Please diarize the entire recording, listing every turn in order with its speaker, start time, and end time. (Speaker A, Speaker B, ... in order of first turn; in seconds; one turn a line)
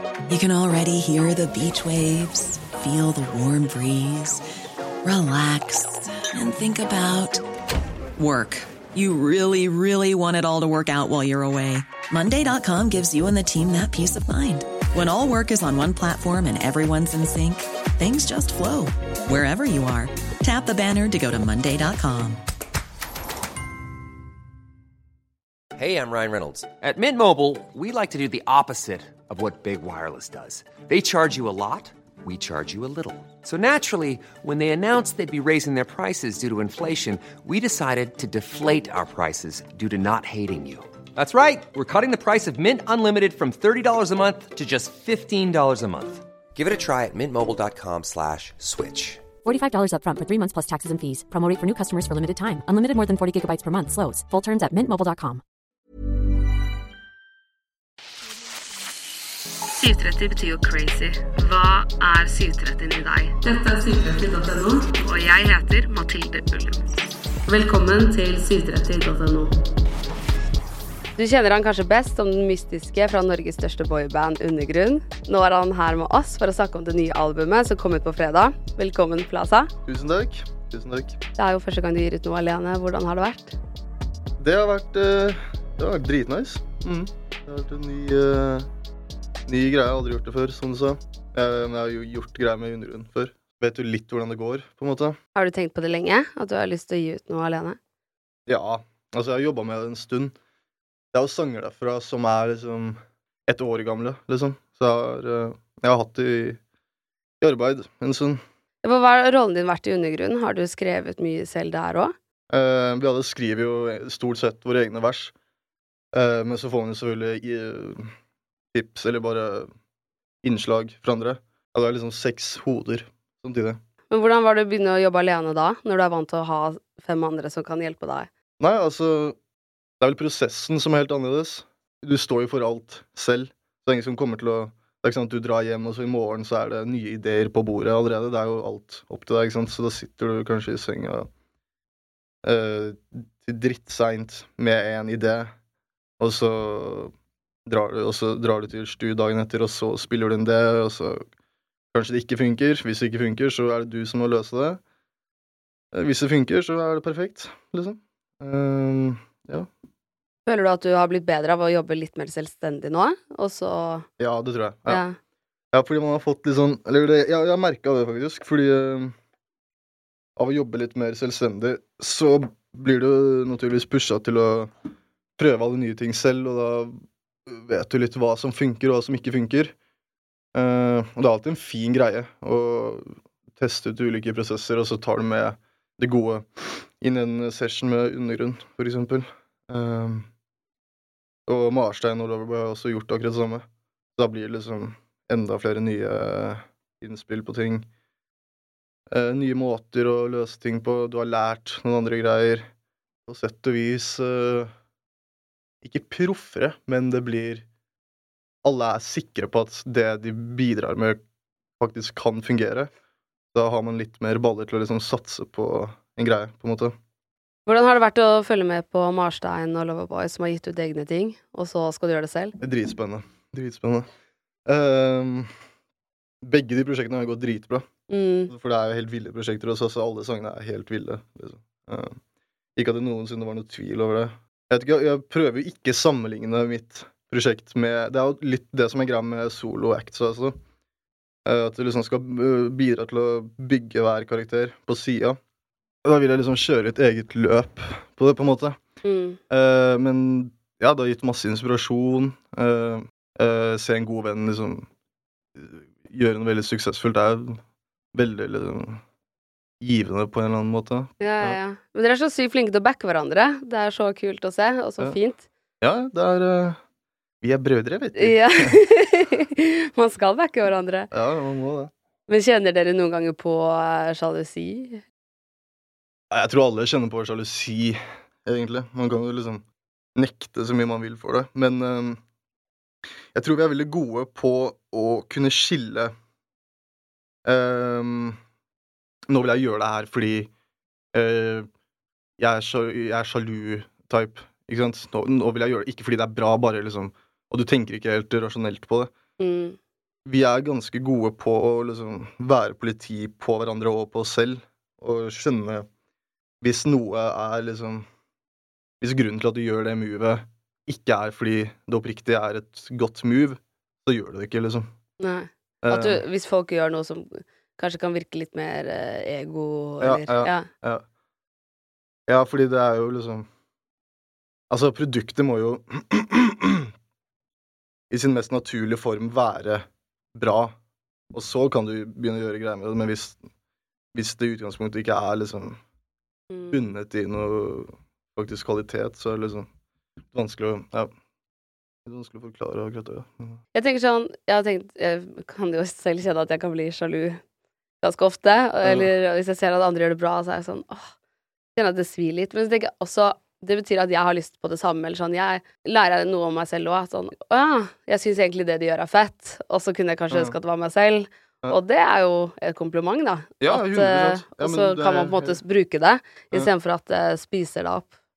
Speaker A: 0.3-4.4
Speaker A: 5.0-7.4
Speaker A: 8.2-22.4
Speaker B: 25.8-49.2
Speaker C: 49.4-55.4
Speaker D: 59.8-66.8
Speaker D: 67.5-69.5
Speaker D: 71.2-79.7
Speaker E: 79.8-81.2
Speaker D: 81.4-83.6
Speaker E: 84.4-88.7
Speaker E: 89.5-95.2
Speaker D: 95.4-97.8
Speaker E: 98.5-100.4
Speaker E: 101.1-106.6
Speaker E: 107.4-108.4
Speaker D: 108.8-112.1
Speaker E: 112.5-115.3
Speaker E: 116.1-118.1
Speaker E: 118.7-119.7
Speaker E: 120.4-123.8
Speaker D: 124.1-128.3
Speaker E: 128.6-129.4
Speaker E: 130.0-141.3
Speaker E: 142.4-145.5
Speaker E: 146.2-147.1
Speaker E: 147.7-151.3
Speaker E: 151.9-154.8
Speaker E: 155.9-159.7
Speaker D: 160.5-164.1
Speaker E: 164.2-165.0
Speaker D: 164.9-165.2
Speaker E: 165.7-169.2
Speaker E: 170.4-174.7
Speaker E: 175.4-179.8
Speaker E: 180.5-190.3
Speaker E: 191.5-197.9
Speaker E: 199.1-202.7
Speaker E: 203.3-204.7
Speaker E: 205.8-207.7
Speaker E: 208.6-211.2
Speaker E: 211.8-212.9
Speaker E: 213.5-217.0
Speaker D: 217.7-222.6
Speaker E: 222.6-224.1
Speaker E: 224.7-225.5
Speaker E: 226.4-227.9
Speaker D: 228.1-228.5
Speaker E: 228.5-232.2
Speaker E: 232.8-240.6
Speaker E: 241.4-245.4
Speaker E: 246.0-248.8
Speaker D: 249.0-249.4
Speaker E: 249.5-254.9
Speaker E: 255.6-257.6
Speaker E: 258.1-259.0
Speaker E: 259.8-261.6
Speaker D: 261.2-265.5
Speaker E: 265.8-266.8
Speaker E: 267.4-268.8
Speaker D: 268.1-271.1
Speaker E: 271.1-271.9
Speaker D: 272.3-275.0
Speaker E: 276.3-282.2
Speaker E: 283.3-286.1
Speaker E: 287.4-288.4
Speaker E: 289.3-290.5
Speaker E: 291.1-291.7
Speaker E: 292.4-299.1
Speaker D: 299.4-299.8
Speaker E: 300.2-305.9
Speaker E: 306.6-308.1
Speaker E: 309.0-314.9
Speaker D: 315.2-320.7
Speaker E: 315.8-316.2
Speaker E: 320.0-321.1
Speaker E: 322.3-323.5
Speaker E: 324.7-326.9
Speaker E: 328.1-330.8
Speaker E: 331.3-333.4
Speaker E: 334.1-335.8
Speaker D: 336.5-336.9
Speaker E: 336.7-339.7
Speaker E: 340.3-341.1
Speaker E: 342.1-343.6
Speaker D: 343.7-347.4
Speaker D: 348.0-351.1
Speaker E: 348.8-349.1
Speaker D: 351.8-368.1
Speaker E: 360.3-360.6
Speaker E: 363.6-365.6